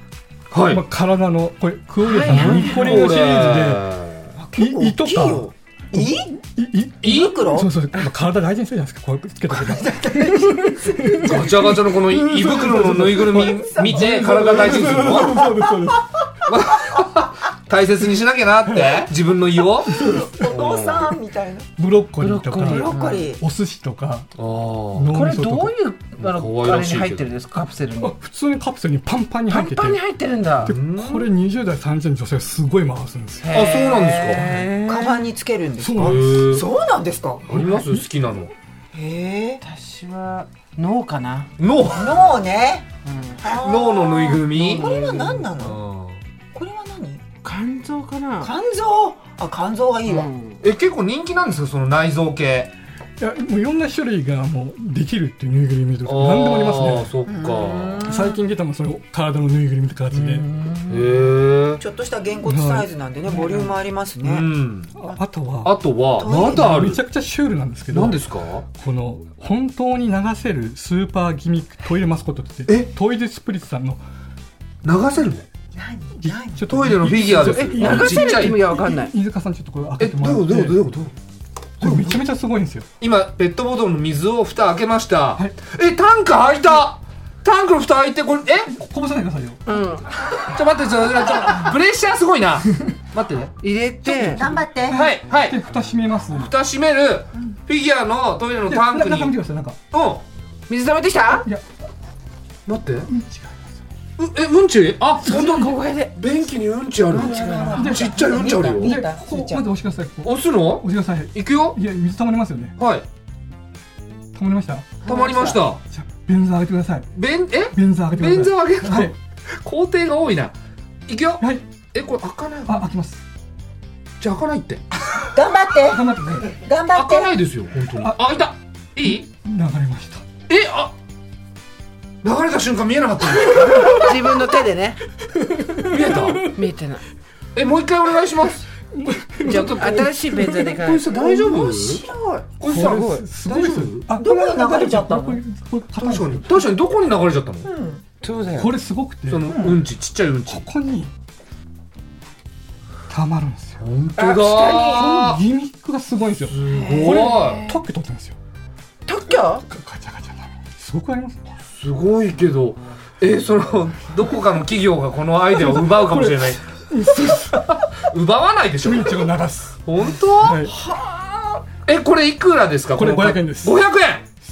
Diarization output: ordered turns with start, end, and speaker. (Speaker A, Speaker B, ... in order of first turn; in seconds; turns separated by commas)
Speaker A: 0.5-0.8, Speaker B: 0.7-3.9, Speaker C: 2.0-2.8, Speaker A: 2.3-4.3, Speaker D: 4.4-6.3, Speaker B: 4.6-16.1, Speaker A: 7.0-7.4, Speaker D: 7.0-7.7, Speaker D: 9.5-11.8, Speaker A: 11.2-15.4, Speaker D: 13.4-16.0, Speaker A: 16.5-21.2, Speaker B: 18.7-19.0, Speaker B: 19.9-20.4, Speaker D: 19.9-21.7, Speaker B: 21.8-24.3, Speaker C: 22.2-23.3, Speaker D: 22.6-23.4, Speaker A: 24.4-25.1, Speaker B: 24.9-25.8, Speaker C: 25.1-28.2, Speaker A: 26.2-27.3, Speaker B: 28.0-30.0, Speaker C: 29.5-30.8, Speaker A: 30.6-31.3, Speaker B: 30.7-33.6, Speaker C: 33.4-35.3, Speaker A: 33.5-34.6, Speaker D: 34.9-37.5, Speaker B: 35.8-36.4, Speaker A: 36.0-36.7, Speaker A: 37.5-38.5, Speaker B: 37.5-38.0, Speaker D: 38.9-39.6, Speaker C: 39.6-41.5, Speaker A: 41.6-42.3, Speaker D: 41.9-42.9, Speaker C: 43.0-43.4, Speaker D: 43.4-45.8, Speaker A: 43.5-44.9, Speaker C: 44.5-45.5, Speaker A: 45.6-46.2, Speaker D: 46.5-47.2, Speaker C: 47.4-48.5, Speaker D: 48.4-50.3, Speaker C: 50.1-50.6, Speaker A: 50.6-52.7, Speaker B: 53.2-57.1, Speaker A: 56.1-58.1, Speaker D: 57.3-58.4, Speaker B: 58.0-60.5, Speaker C: 60.1-61.2, Speaker A: 60.9-61.8, Speaker D: 61.8-64.5, Speaker B: 62.5-62.9, Speaker C: 63.3-63.7, Speaker A: 64.2-64.9, Speaker B: 65.0-74.0, Speaker A: 65.6-67.0, Speaker D: 66.2-66.8, Speaker A: 67.9-68.7, Speaker A: 74.8-75.5, Speaker D: 75.8-76.8, Speaker B: 76.2-80.8, Speaker A: 76.7-78.6, Speaker C: 77.5-79.1, Speaker A: 80.0-81.1, Speaker A: 81.8-82.2, Speaker B: 81.8-82.9, Speaker A: 83.0-88.7, Speaker B: 88.7-90.0, Speaker C: 89.7-90.1, Speaker A: 90.5-93.5, Speaker C: 93.6-94.4, Speaker B: 94.1-96.5, Speaker D: 94.3-95.0, Speaker A: 94.9-95.6, Speaker A: 96.3-99.4, Speaker B: 98.7-99.8, Speaker A: 99.9-100.2, Speaker C: 100.7-101.5, Speaker B: 101.3-101.7, Speaker A: 102.7-103.1, Speaker B: 103.1-103.8, Speaker A: 104.2-109.0, Speaker C: 105.2-106.2, Speaker D: 107.1-109.6, Speaker C: 107.1-107.9, Speaker B: 107.8-108.2, Speaker B: 108.8-112.8, Speaker A: 110.2-111.8, Speaker A: 112.8-113.0, Speaker B: 114.3-115.0, Speaker D: 115.0-115.6, Speaker A: 115.1-115.8, Speaker B: 115.9-117.1, Speaker A: 117.2-120.5, Speaker B: 117.7-119.2, Speaker A: 121.1-121.4, Speaker A: 121.9-122.9, Speaker B: 122.7-123.2, Speaker A: 124.2-124.8, Speaker D: 125.2-127.3, Speaker B: 125.9-126.6, Speaker A: 126.9-129.3, Speaker B: 129.4-130.2, Speaker A: 130.5-130.9, Speaker A: 132.2-134.2, Speaker C: 133.8-135.0, Speaker B: 135.3-136.6, Speaker A: 135.8-136.5, Speaker C: 136.5-137.0, Speaker A: 137.6-138.7, Speaker B: 138.9-140.7, Speaker C: 139.4-141.1, Speaker A: 139.5-142.1, Speaker D: 141.1-142.5, Speaker A: 142.6-144.1, Speaker B: 142.7-146.7, Speaker C: 142.7-143.2, Speaker D: 144.1-145.4, Speaker A: 146.0-147.7, Speaker D: 147.7-148.0, Speaker C: 148.2-148.8, Speaker B: 148.6-149.7, Speaker A: 149.3-150.7, Speaker D: 149.5-149.8, Speaker B: 150.5-151.1, Speaker B: 153.1-153.8, Speaker A: 153.8-155.4, Speaker C: 154.2-155.0, Speaker B: 154.6-158.4, Speaker A: 156.5-157.7, Speaker D: 156.7-157.8, Speaker C: 159.1-159.6, Speaker B: 159.6-161.5, Speaker A: 161.8-166.6, Speaker B: 165.5-167.8, Speaker A: 167.2-169.3, Speaker B: 168.8-169.8, Speaker A: 169.8-170.8, Speaker B: 170.3-170.7, Speaker D: 170.7-171.6, Speaker A: 171.9-174.2, Speaker B: 172.9-173.8